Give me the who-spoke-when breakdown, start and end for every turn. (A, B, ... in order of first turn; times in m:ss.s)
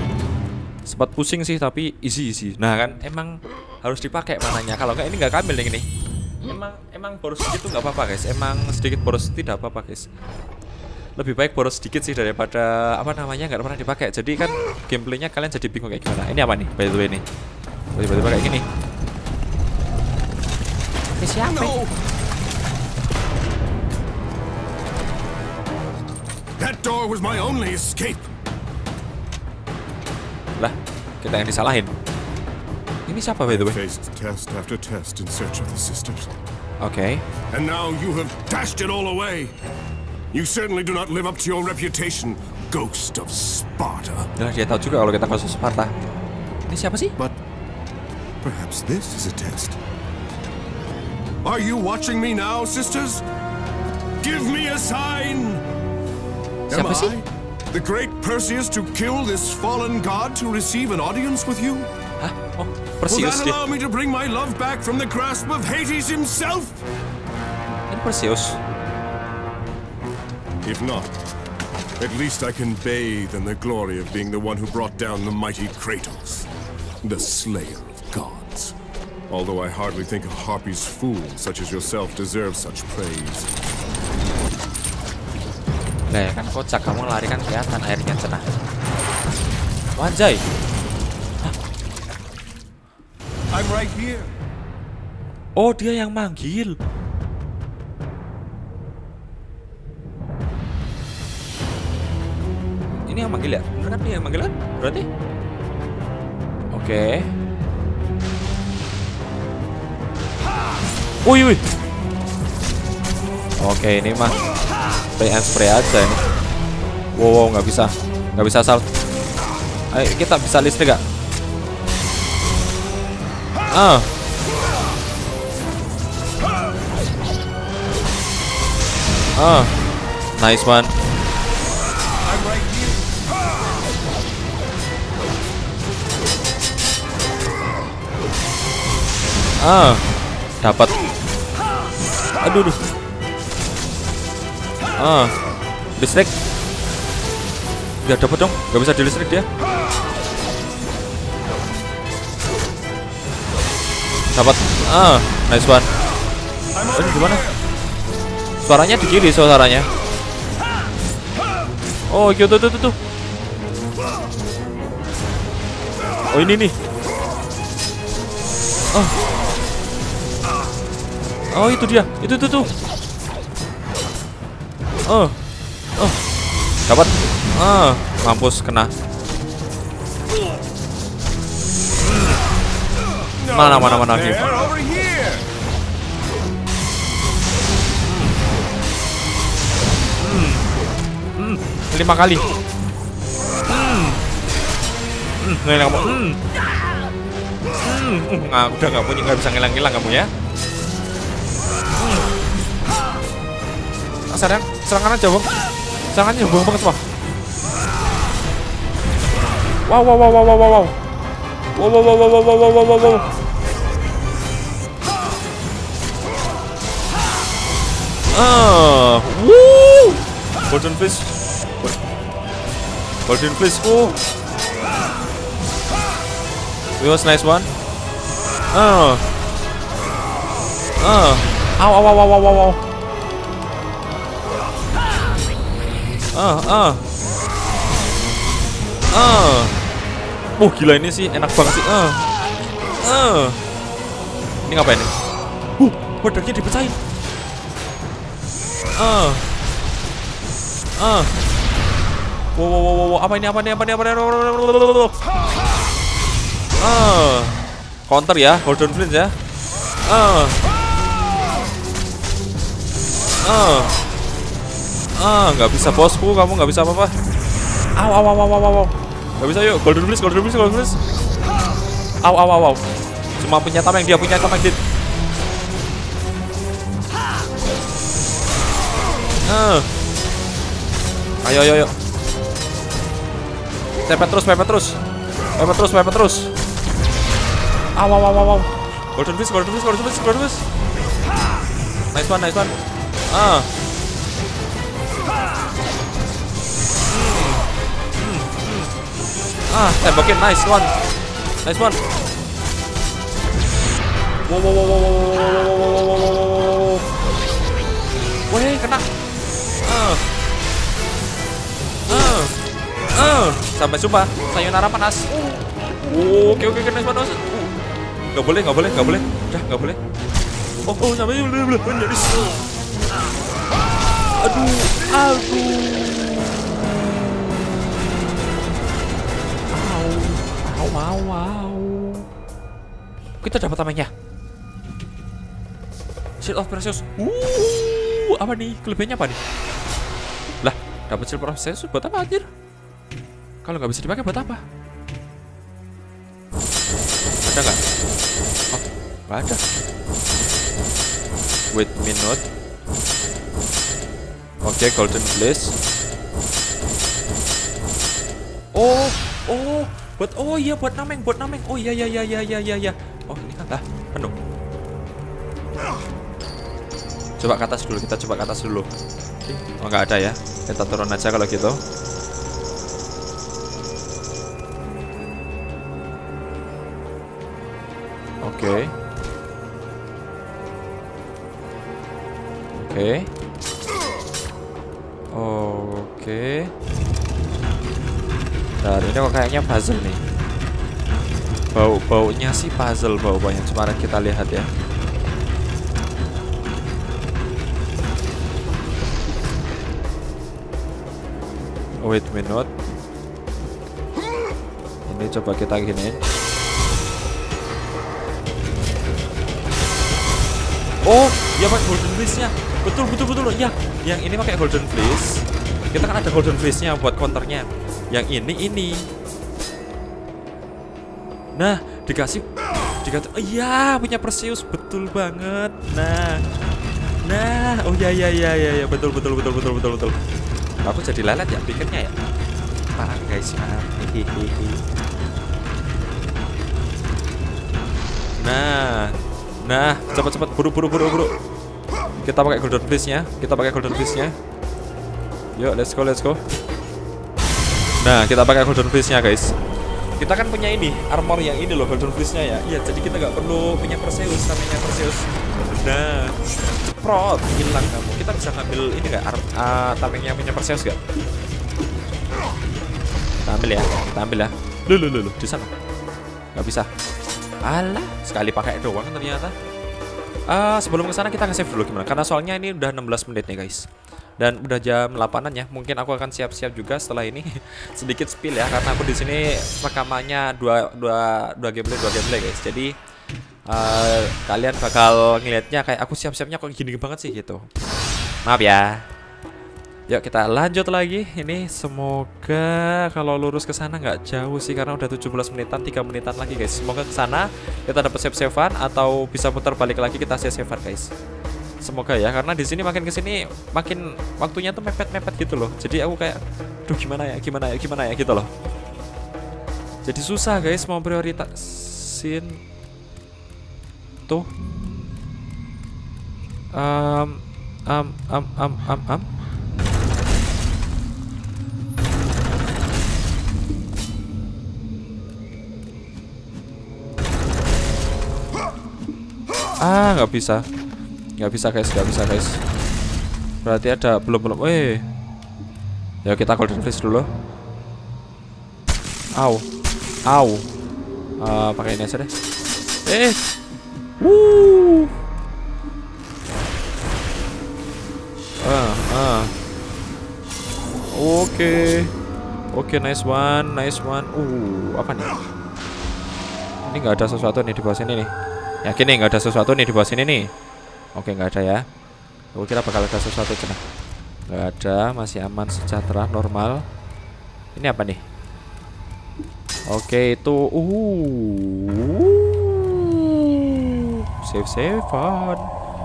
0:00.8-0:05.9 A
0:06.5-0:10.1 A
0:11.2-0:17.2 A
0:18.0-0:18.6 A
0:21.2-0:21.8 A
0:21.4-0:22.0 B
0:26.6-0:28.3 B
0:30.6-0:31.9 A
0:33.1-0:33.8 A
0:33.4-0:36.4 B
0:36.8-0:37.2 A
0:37.5-0:39.6 B
0:40.3-0:44.3 B
0:44.4-0:45.9 A
0:46.7-0:47.1 A
0:48.4-0:49.8 B
0:51.4-0:53.2 B
0:54.2-0:55.6 B
0:56.7-1:01.9 B
0:56.7-0:57.2 A
1:02.2-1:03.6 A
1:03.1-1:06.8 B
1:07.9-1:08.6 A
1:10.6-1:11.1 B
1:12.0-1:16.5 B
1:17.0-1:18.8 B
1:19.3-1:23.5 B
1:26.1-1:28.5 A
1:30.0-1:30.4 A
1:33.5-1:34.3 B
1:35.6-1:36.8 A
1:43.1-1:45.1 A
1:46.7-1:47.3 A
1:51.2-1:51.6 A
1:53.6-1:54.3 A
1:55.2-1:56.2 A
1:57.2-1:58.8 A
1:59.9-2:01.0 A
2:03.7-2:04.1 A
2:09.4-2:09.7 A
2:10.4-2:10.9 A
2:12.2-2:13.1 B
2:19.6-2:20.0 A
2:20.6-2:21.0 A
2:22.4-2:22.8 A
2:25.0-2:25.3 A
2:26.0-2:26.3 A
2:28.0-2:29.5 A
2:34.3-2:35.9 A
2:36.7-2:37.6 B
2:36.9-2:37.4 A
2:38.6-2:39.9 A
2:42.1-2:43.0 A
2:46.3-2:46.7 A
2:51.5-2:52.7 A
2:55.1-2:55.4 A
2:56.9-2:58.9 A
3:02.0-3:02.4 A
3:03.4-3:05.5 B
3:03.5-3:04.5 A
3:08.0-3:08.4 A
3:10.2-3:10.7 A
3:11.4-3:12.5 A
3:13.7-3:14.2 A
3:15.4-3:16.4 A
3:17.8-3:20.3 A
3:22.0-3:22.3 A
3:24.3-3:25.5 A
3:26.1-3:27.0 A
3:29.9-3:31.0 A
3:31.8-3:33.3 A
3:38.3-3:41.9 A
3:43.3-3:44.2 A
3:47.0-3:47.7 A
3:48.7-3:49.2 A
3:51.0-3:52.8 A
3:56.3-3:57.0 A
3:59.1-3:59.8 A
4:00.6-4:02.2 A
4:03.0-4:03.6 A
4:04.7-4:05.1 A
4:05.8-4:07.0 A
4:09.0-4:09.5 A
4:11.0-4:11.3 A
4:12.6-4:15.2 A
4:16.8-4:19.3 A
4:20.1-4:20.6 A
4:23.4-4:24.0 A
4:25.2-4:27.1 A
4:28.0-4:31.0 A
4:32.2-4:32.8 A
4:33.4-4:34.8 A
4:39.4-4:39.9 A
4:41.4-4:41.9 A
4:44.0-4:45.0 A
4:45.6-4:46.5 A
4:48.0-4:50.6 A
4:52.1-4:52.7 A
4:53.3-4:53.7 A
4:57.1-4:57.7 A
4:58.2-4:59.1 A
4:59.7-5:00.9 A
5:01.6-5:02.0 A
5:04.5-5:07.0 A
5:08.5-5:09.1 A
5:09.8-5:10.2 A
5:12.1-5:12.5 A
5:13.2-5:15.4 A
5:16.0-5:17.8 A
5:18.3-5:20.0 A
5:20.9-5:22.6 A
5:24.3-5:26.2 A
5:29.7-5:32.3 A
5:33.4-5:34.1 A
5:36.4-5:39.4 A
5:40.6-5:42.5 A
5:43.6-5:44.6 A
5:47.4-5:47.8 A
5:48.7-5:49.8 A
5:51.7-5:52.4 A
5:54.6-5:55.8 A
5:58.7-6:04.4 A
6:07.4-6:08.9 A
6:09.4-6:11.8 A
6:18.4-6:18.9 A
6:22.7-6:23.3 A
6:25.3-6:26.7 A
6:28.8-6:30.2 A
6:31.7-6:34.7 A
6:42.0-6:42.7 A
6:45.1-6:46.2 A
6:51.0-6:59.1 A
7:01.6-7:02.5 A
7:03.0-7:06.4 A
7:07.2-7:10.2 A
7:10.8-7:12.2 A
7:13.0-7:14.8 A
7:18.4-7:21.3 A
7:22.2-7:24.3 A
7:25.5-7:26.4 A
7:28.0-7:29.6 A
7:30.2-7:41.0 A
7:43.4-7:45.7 A
7:46.6-7:46.9 A
7:47.6-7:49.6 A
7:50.5-7:53.8 A
7:54.4-8:02.9 A
8:03.7-8:07.6 A
8:08.5-8:09.0 A
8:10.1-8:21.1 A
8:21.8-8:28.5 A
8:30.1-8:32.6 A
8:36.7-8:39.3 A
8:49.8-8:50.6 A
8:51.4-8:52.6 A
8:53.6-8:55.0 A
8:56.2-8:57.3 A
8:59.4-8:59.7 A
9:00.3-9:00.7 A
9:01.4-9:02.3 A
9:03.1-9:03.4 A
9:04.2-9:05.1 A
9:08.6-9:09.5 A
9:11.1-9:12.1 A
9:12.7-9:15.4 A
9:16.9-9:18.3 A
9:18.8-9:20.5 A
9:21.2-9:21.8 A
9:22.6-9:23.8 A
9:24.5-9:26.8 A
9:27.8-9:28.2 A
9:29.9-9:35.7 A